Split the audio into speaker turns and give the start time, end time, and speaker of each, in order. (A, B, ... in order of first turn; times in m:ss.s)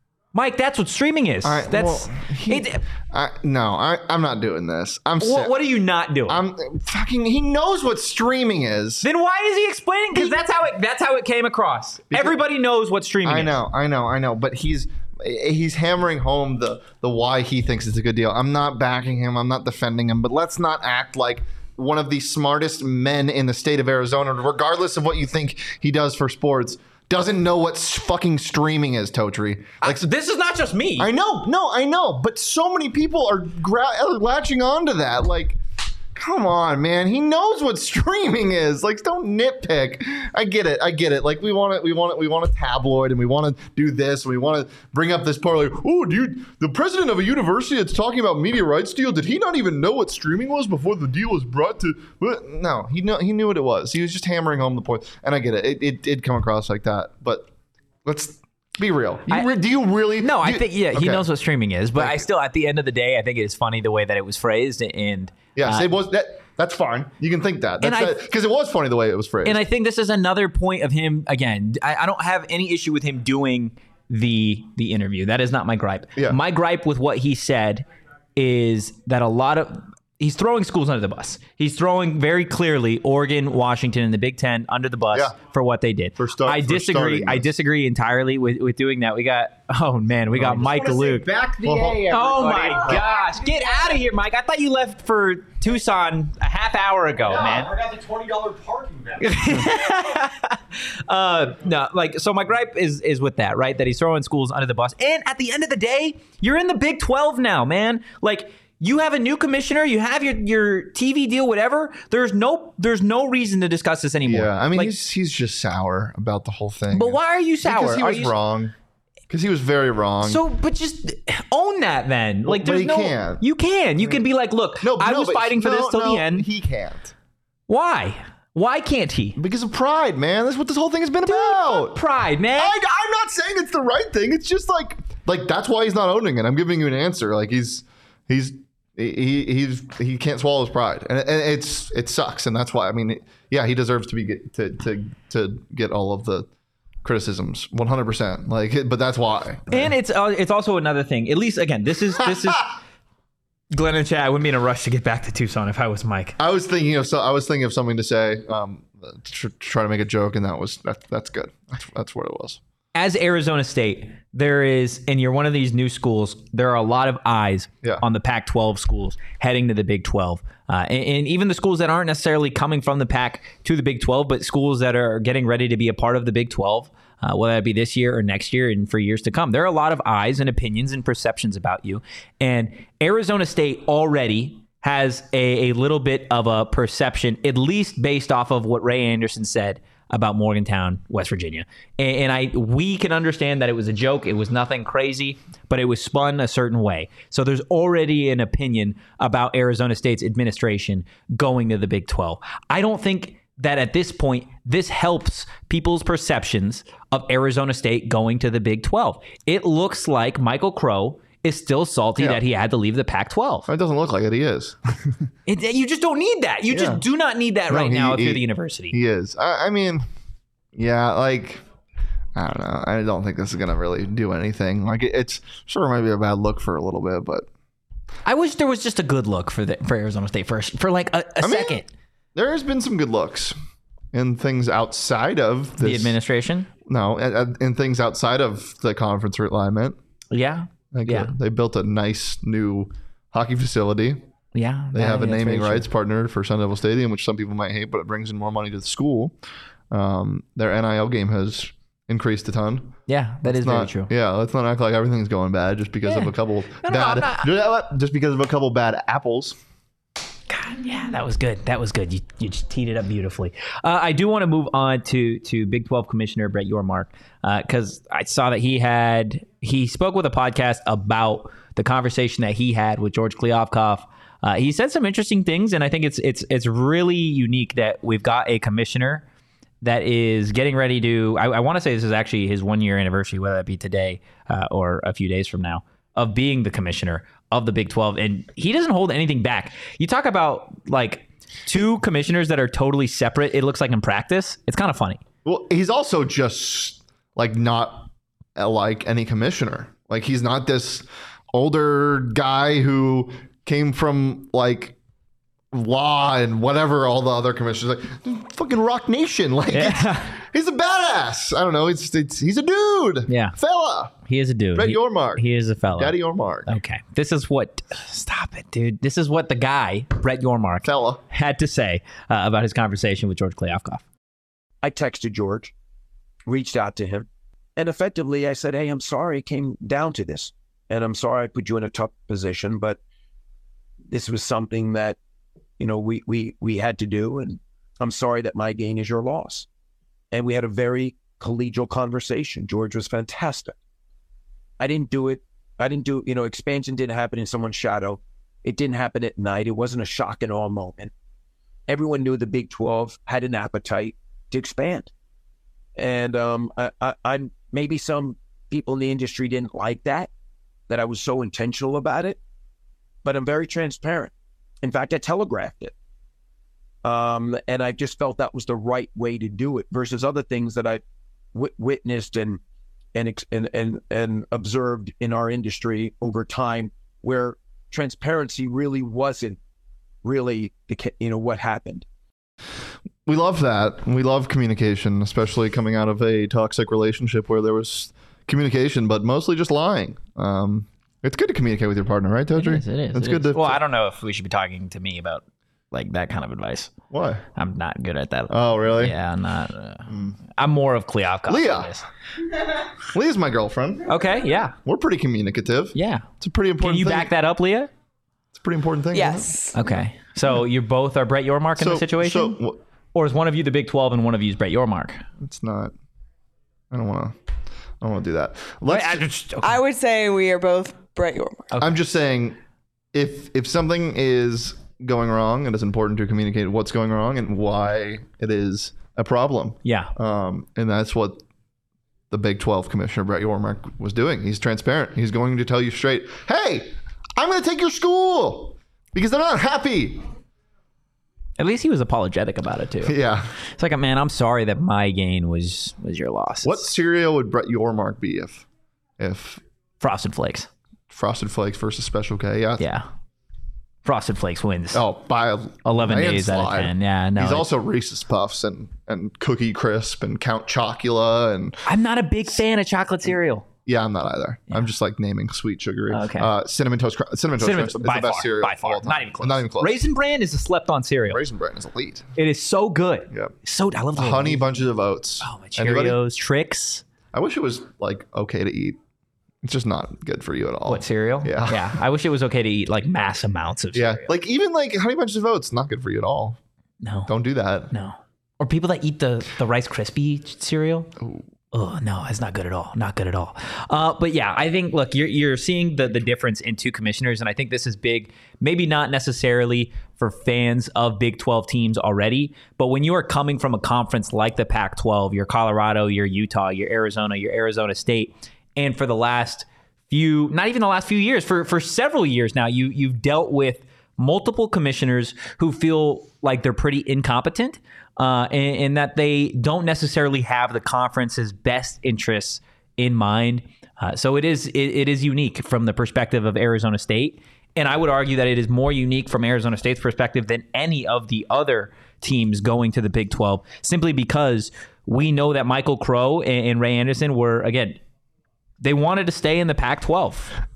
0:00.3-0:02.8 A
0:01.4-0:05.6 B
0:05.2-0:06.4 A
0:06.3-0:09.1 B
0:09.0-0:13.6 A
0:12.1-0:12.4 B
0:13.2-0:30.0 B
0:29.8-0:31.1 A
0:31.0-0:35.6 B
0:36.1-0:57.5 B
0:58.0-1:01.2 B
1:00.2-1:05.9 A
1:01.9-1:02.3 B
1:05.5-1:09.6 B
1:07.8-1:08.2 A
1:09.4-1:17.8 A
1:18.4-1:31.4 A
1:26.2-1:27.5 B
1:30.3-1:33.0 B
1:30.8-1:34.0 C
1:32.0-1:37.7 A
1:37.3-1:39.7 C
1:39.2-1:54.9 A
1:54.2-1:58.7 B
1:56.9-1:58.3 A
1:59.3-2:00.4 B
2:00.2-2:06.4 A
2:02.4-2:03.4 B
2:04.8-2:07.1 B
2:07.7-2:09.4 A
2:09.4-2:12.0 B
2:11.2-2:12.8 A
2:12.6-2:26.5 B
2:27.0-2:29.9 B
2:29.7-2:32.8 A
2:33.7-2:36.4 A
2:36.4-2:42.6 B
2:42.9-3:33.7 A
3:33.7-3:35.3 B
3:35.5-3:39.0 A
3:36.7-3:37.0 B
3:37.7-3:40.0 B
3:40.7-3:41.6 B
3:42.3-3:47.5 B
3:48.2-3:51.9 A
3:51.4-3:51.8 B
3:52.3-3:53.5 B
3:54.1-3:56.2 B
3:55.8-3:56.7 A
3:56.8-4:00.0 B
4:00.3-4:01.3 A
4:00.9-4:04.2 B
4:04.5-4:05.9 A
4:04.9-4:09.4 B
4:09.9-4:19.6 B
4:13.1-4:14.1 A
4:16.0-4:17.5 A
4:20.5-4:39.2 A
4:39.8-4:55.2 A
4:55.4-5:05.0 B
5:05.7-5:14.1 B
5:09.7-5:10.4 A
5:13.3-5:13.6 A
5:14.2-5:24.0 A
5:14.7-5:16.8 B
5:20.8-5:21.2 B
5:24.8-5:25.7 D
5:26.4-5:33.0 D
5:34.1-5:35.2 D
5:35.8-5:39.7 D
5:40.3-5:43.7 D
5:44.8-5:51.1 D
5:51.9-5:55.1 D
5:56.0-6:00.3 D
6:00.9-6:02.4 D
6:03.2-6:04.3 D
6:04.8-6:05.9 D
6:07.0-6:11.0 D
6:11.5-6:12.6 D
6:13.1-6:19.6 D
6:20.2-6:22.0 D
6:23.2-6:33.8 B
6:32.6-6:36.9 A
6:37.1-6:37.4 B
6:37.6-6:42.0 A
6:38.5-6:39.2 B
6:40.1-6:40.3 B
6:41.5-6:42.0 B
6:43.1-6:44.1 B
6:44.0-6:44.7 A
6:44.8-6:47.3 B
6:45.9-6:46.3 A
6:46.8-6:47.9 A
6:48.5-6:49.5 B
6:49.1-6:49.8 E
6:49.7-6:52.6 A
6:51.8-6:52.8 B
6:53.1-6:55.2 A
6:55.4-6:55.9 B
6:56.9-6:57.3 B
6:58.0-6:59.2 B
6:58.9-6:59.8 A
6:59.6-7:01.7 E
7:01.7-7:02.0 A
7:01.8-7:02.6 B
7:03.1-7:11.4 B
7:09.8-7:10.1 A
7:12.3-7:20.2 B
7:21.6-7:23.2 A
7:23.0-7:23.5 B
7:23.7-7:26.8 A
7:26.6-7:28.6 B
7:29.2-7:29.6 B
7:30.0-7:30.7 A
7:31.1-7:32.8 B
7:32.8-7:33.0 A
7:34.0-7:35.0 A
7:34.9-7:41.8 B
7:35.8-7:37.7 A
7:41.8-7:43.6 A
7:43.8-7:50.0 B
7:46.1-7:46.5 A
7:47.6-7:51.4 A
7:51.3-7:52.3 B
7:52.4-7:54.7 A
7:54.2-7:56.2 B
7:55.4-7:57.0 A
7:57.3-7:59.0 B
7:59.6-8:01.9 B
8:00.9-8:04.3 A
8:03.9-8:06.6 B
8:07.0-8:07.3 A
8:07.3-8:07.9 B
8:07.9-8:11.1 A
8:11.7-8:58.0 A
8:58.8-9:00.5 A